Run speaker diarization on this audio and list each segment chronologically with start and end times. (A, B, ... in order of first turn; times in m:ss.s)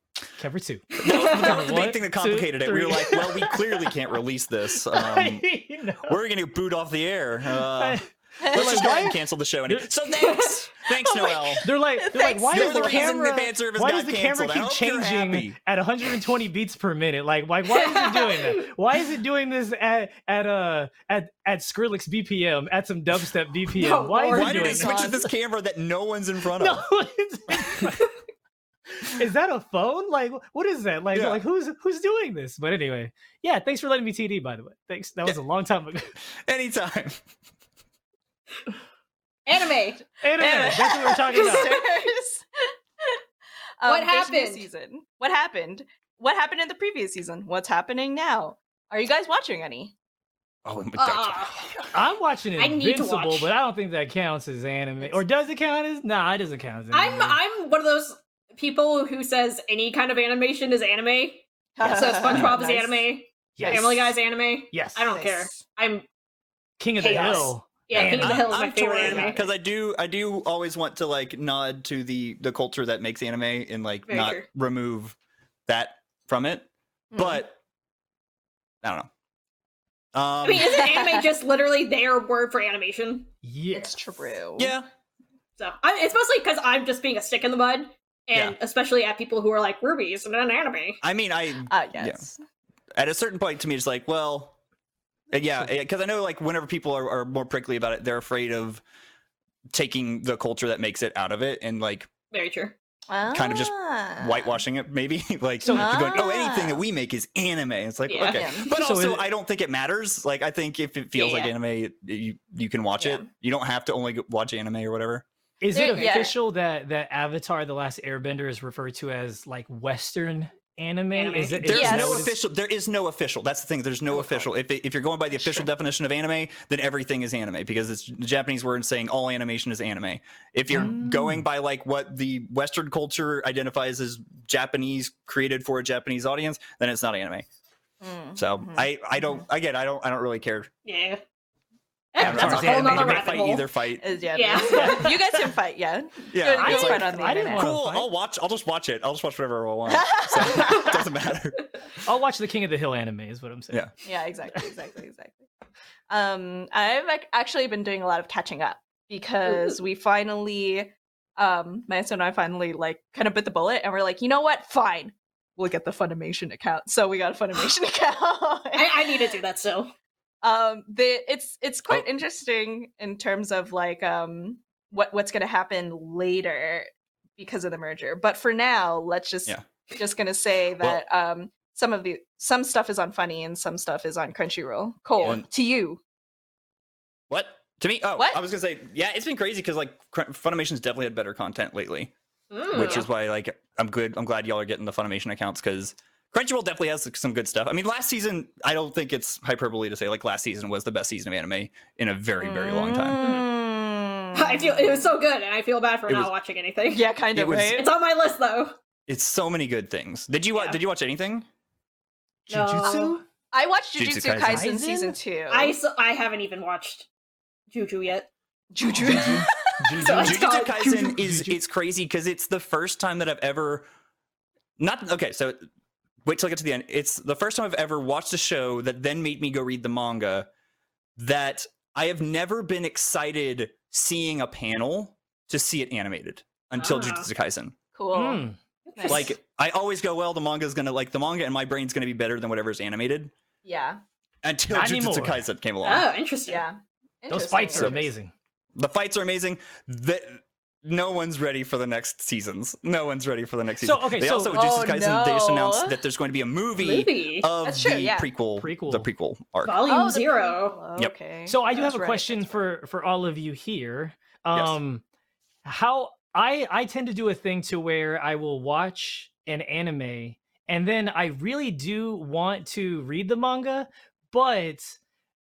0:00.4-0:03.9 A
0:01.0-0:05.4 B
0:01.1-0:01.5 C
0:04.9-0:06.2 A
0:06.0-0:11.6 B
0:07.7-0:09.9 A
0:08.4-0:09.0 D
0:10.2-0:10.6 C
0:11.0-0:13.1 D
0:11.6-0:25.0 A
0:12.5-0:15.6 B
0:17.7-0:18.6 C
0:23.8-0:25.0 C
0:24.3-0:26.8 B
0:24.6-0:25.3 D
0:26.6-0:28.1 A
0:29.0-0:36.1 A
0:31.1-0:31.4 B
0:36.4-0:37.2 B
0:39.4-0:40.0 C
0:40.2-0:41.8 A
0:40.4-0:42.4 D
0:43.8-0:49.9 D
0:43.8-0:44.6 C
0:50.6-0:51.9 B
0:51.0-0:51.5 C
0:51.9-0:57.4 A
0:52.6-0:53.5 C
0:56.9-1:06.0 C
1:01.8-1:03.1 D
1:01.8-1:02.5 B
1:03.6-1:03.9 A
1:03.6-1:04.1 D
1:04.7-1:05.0 A
1:05.1-1:05.6 D
1:06.8-1:08.5 A
1:07.0-1:09.4 C
1:07.1-1:07.5 D
1:07.9-1:15.2 B
1:09.0-1:09.5 D
1:14.1-1:14.5 C
1:15.7-1:17.6 B
1:17.1-1:17.4 D
1:18.8-1:19.1 B
1:20.1-1:20.9 B
1:20.4-1:23.3 C
1:20.6-1:21.2 D
1:23.4-1:24.1 A
1:23.7-1:24.7 D
1:24.6-1:24.9 B
1:25.6-1:31.0 C
1:31.0-1:32.2 B
1:31.7-1:32.4 D
1:33.0-1:34.6 B
1:35.3-1:38.8 B
1:39.7-1:42.1 B
1:42.3-1:42.7 C
1:43.1-1:44.6 D
1:43.3-1:55.2 B
1:45.6-1:46.2 A
1:45.7-1:46.8 D
1:48.1-1:48.7 C
1:48.2-1:48.7 D
1:48.7-1:49.3 A
1:51.1-1:51.5 C
1:53.0-1:53.3 D
1:55.6-2:02.3 A
1:55.7-1:56.3 D
2:01.1-2:01.7 C
2:01.6-2:17.4 B
2:01.7-2:02.3 D
2:10.7-2:11.4 A
2:18.0-2:19.4 D
2:18.4-2:20.7 B
2:20.8-2:21.2 C
2:22.1-2:23.7 C
2:22.2-2:23.4 A
2:22.2-2:24.2 B
2:24.0-2:27.7 D
2:24.3-2:25.2 C
2:24.7-2:25.1 A
2:26.3-2:31.7 B
2:26.6-2:28.1 A
2:29.9-2:31.0 D
2:32.0-2:33.8 A
2:34.0-2:35.4 D
2:36.1-2:49.2 D
2:39.5-2:39.7 C
2:48.7-2:49.9 C
2:50.4-3:06.0 D
3:07.3-3:12.1 B
3:12.5-3:13.1 C
3:12.7-3:23.2 B
3:22.4-3:25.1 D
3:23.2-3:23.5 C
3:24.3-3:28.8 C
3:26.9-3:27.9 D
3:27.3-3:27.8 B
3:29.1-3:31.4 B
3:32.5-3:33.2 C
3:32.5-3:33.2 A
3:33.5-3:35.8 D
3:34.0-3:34.7 B
3:34.4-3:35.2 A
3:35.5-3:37.1 C
3:37.7-3:38.3 C
3:38.7-3:39.7 D
3:38.9-3:41.6 A
3:40.0-3:41.2 C
3:40.0-3:43.9 B
3:44.8-3:45.6 B
3:46.2-3:50.5 B
3:51.2-3:57.7 B
3:56.8-3:57.3 C
3:57.9-3:58.4 D
3:58.1-3:58.6 A
3:58.9-3:59.3 C
3:59.0-3:59.3 D
3:59.1-4:03.3 B
4:03.6-4:04.0 D
4:04.4-4:06.1 B
4:04.7-4:05.4 A
4:05.8-4:06.6 C
4:06.5-4:08.1 D
4:07.3-4:08.3 A
4:07.7-4:08.0 B
4:08.8-4:19.8 B
4:13.8-4:14.6 A
4:14.5-4:16.0 D
4:16.8-4:17.5 C
4:17.6-4:18.3 D
4:18.6-4:19.1 A
4:19.6-4:20.8 C
4:19.8-4:22.6 D
4:21.4-4:25.0 A
4:25.6-4:35.0 A